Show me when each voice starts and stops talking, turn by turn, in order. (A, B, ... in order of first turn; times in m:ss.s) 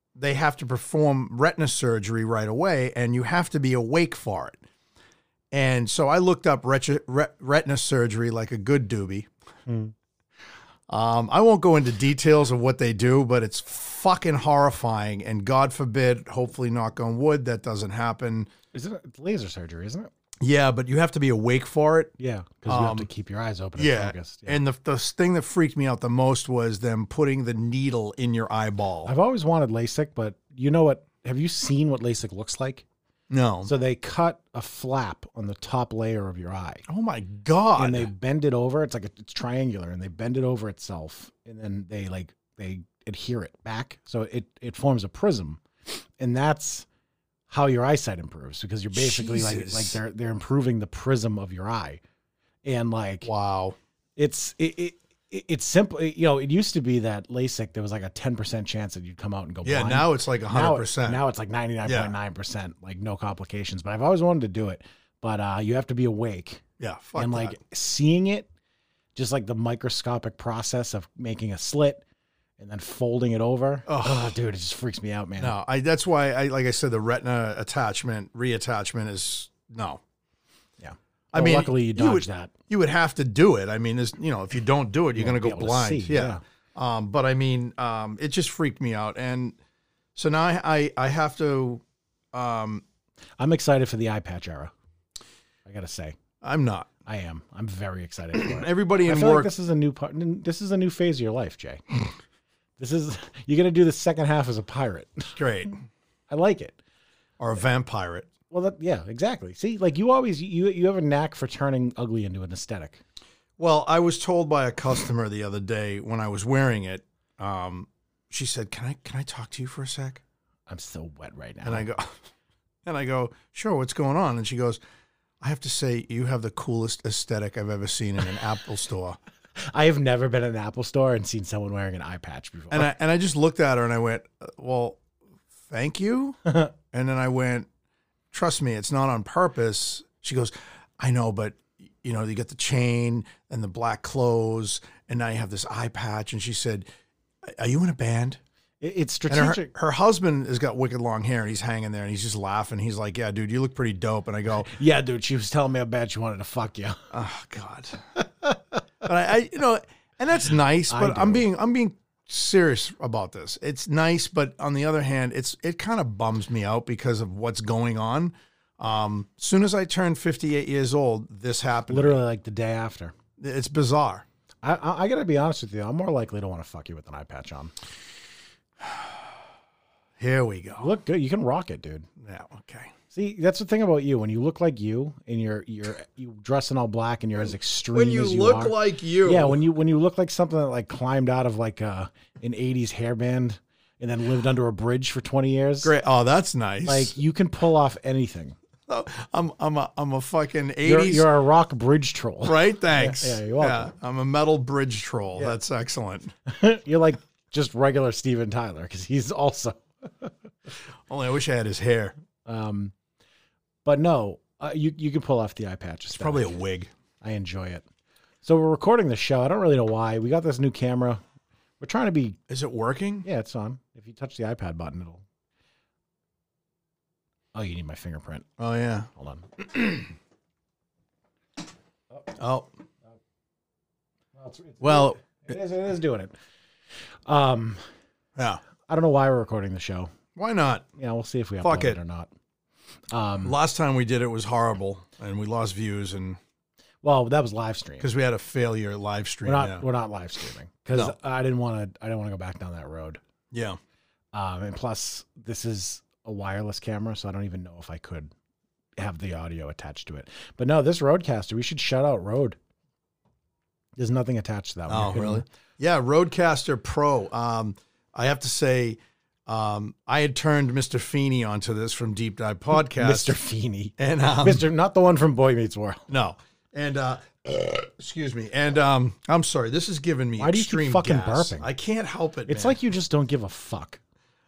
0:00.2-0:04.6 A
0:05.5-0:09.3 A
0:09.7-0:09.9 B
0:10.9-0:18.5 A
0:18.7-0:20.1 B
0:20.4-0:22.1 A
0:22.2-0:24.6 B
0:22.7-0:23.1 A
0:23.8-0:29.1 A
0:29.1-0:32.8 B
0:33.3-0:33.7 A
0:33.6-0:36.8 B
0:36.9-0:38.1 A
0:37.8-0:45.6 B
0:46.2-0:46.9 B
0:47.5-0:52.0 B
0:48.9-0:50.0 A
0:52.6-0:53.3 B
0:53.2-0:53.8 A
0:54.2-1:06.6 B
0:59.6-1:01.2 A
1:01.8-1:02.1 A
1:06.8-1:07.6 A
1:07.2-1:08.5 B
1:09.2-1:12.0 B
1:12.6-1:15.6 B
1:13.9-1:14.4 A
1:15.4-1:20.0 A
1:20.8-1:22.5 B
1:21.3-1:29.6 A
1:25.2-1:26.4 B
1:30.2-1:32.8 A
1:33.4-1:34.7 B
1:35.7-1:36.2 B
1:36.4-1:36.9 A
1:37.1-1:41.8 B
1:38.3-1:39.5 A
1:42.8-1:45.4 B
1:45.4-1:45.8 A
1:46.3-1:46.8 B
1:47.4-1:48.3 A
1:48.5-1:53.0 B
1:53.6-2:00.2 A
2:00.7-2:01.9 B
2:01.6-2:02.2 A
2:02.9-2:04.8 A
2:05.4-2:09.2 A
2:09.7-2:12.9 B
2:12.7-2:15.0 A
2:15.7-2:16.4 A
2:16.9-2:17.7 A
2:18.3-2:26.8 A
2:27.4-2:28.4 A
2:28.8-2:29.7 B
2:29.3-2:34.7 A
2:34.7-2:37.0 B
2:37.1-2:38.0 A
2:39.0-2:52.2 A
2:40.9-2:41.5 B
2:51.9-2:53.1 B
2:53.4-2:54.3 A
2:54.6-2:57.7 B
3:00.2-3:00.9 A
3:00.8-3:02.1 B
3:02.2-3:02.9 A
3:03.1-3:15.9 B
3:07.9-3:09.6 A
3:15.8-3:17.2 A
3:16.8-3:18.6 B
3:18.9-3:21.3 A
3:20.8-3:23.9 B
3:22.4-3:26.3 A
3:26.5-3:30.3 B
3:31.1-3:32.1 A
3:32.4-3:32.9 B
3:33.8-3:36.6 B
3:36.1-3:36.9 A
3:37.2-3:37.8 B
3:38.4-3:41.2 B
3:41.8-3:42.4 B
3:42.5-3:43.2 A
3:43.2-3:45.2 B
3:47.6-3:48.5 B
3:48.6-3:49.1 A
3:49.2-3:49.5 B
3:49.8-3:50.0 A
3:52.4-3:52.7 A
3:54.4-3:56.3 B
3:54.8-3:55.2 A
3:57.3-3:57.8 B
3:58.4-3:58.6 A
3:58.9-4:00.1 B
4:00.4-4:00.9 A
4:01.0-4:02.3 B
4:01.6-4:02.0 A
4:03.1-4:03.5 B
4:03.4-4:06.4 A
4:07.0-4:08.1 B
4:08.0-4:09.8 A
4:09.4-4:13.2 B
4:13.5-4:13.8 A
4:14.3-4:18.3 B
4:19.0-4:22.6 B
4:24.0-4:25.5 B
4:24.9-4:33.4 A
4:32.7-4:36.1 B
4:34.0-4:34.7 A
4:36.1-4:42.8 A
4:40.4-4:41.7 B
4:42.5-4:44.0 B